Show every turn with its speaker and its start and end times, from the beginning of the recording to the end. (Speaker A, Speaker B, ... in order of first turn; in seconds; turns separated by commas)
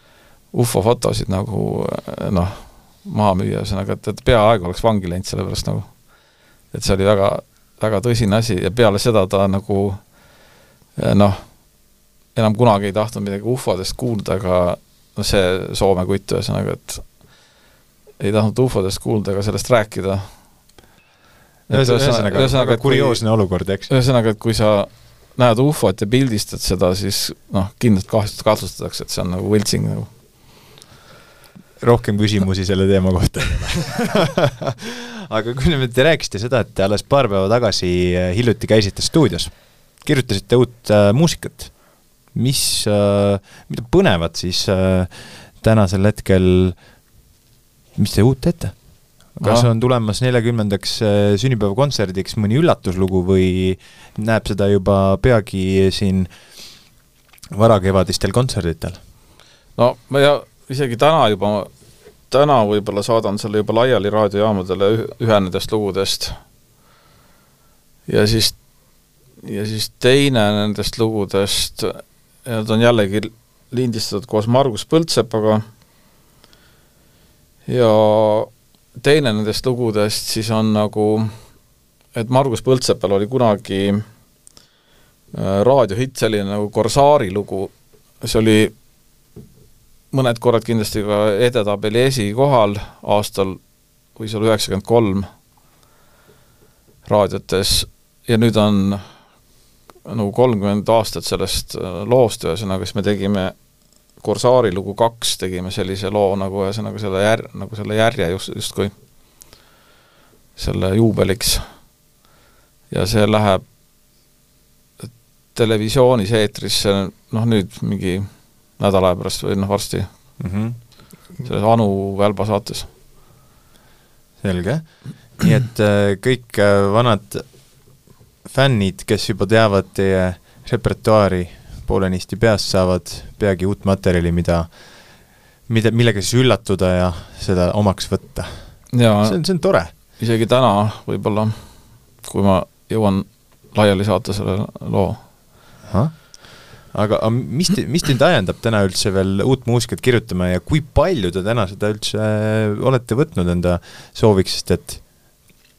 Speaker A: 0.5-6.1, Speaker A: 6.7-10.2, Speaker A: 10.9-11.8, Speaker A: 12.3-17.2, Speaker A: 18.2-20.3, Speaker A: 21.7-23.2, Speaker B: 21.7-23.9, Speaker A: 23.9-30.1, Speaker B: 31.8-46.8, Speaker B: 48.0-56.3, Speaker A: 49.4-49.7, Speaker B: 57.5-59.0, Speaker A: 59.8-61.7, Speaker A: 62.3-66.4, Speaker A: 68.1-68.6, Speaker A: 69.4-75.6, Speaker A: 77.7-81.3, Speaker A: 82.1-84.0, Speaker A: 85.3-88.8, Speaker A: 90.1-93.6, Speaker A: 94.1-95.3, Speaker A: 97.0-99.0, Speaker A: 100.0-103.6, Speaker A: 104.2-108.9, Speaker A: 110.5-111.6, Speaker A: 112.9-113.6, Speaker A: 115.0-120.4, Speaker B: 120.4-120.8, Speaker A: 121.4-122.9, Speaker B: 124.4-127.5, Speaker B: 128.4-134.7, Speaker B: 135.7-139.9, Speaker A: 138.9-145.2, Speaker B: 145.9-155.1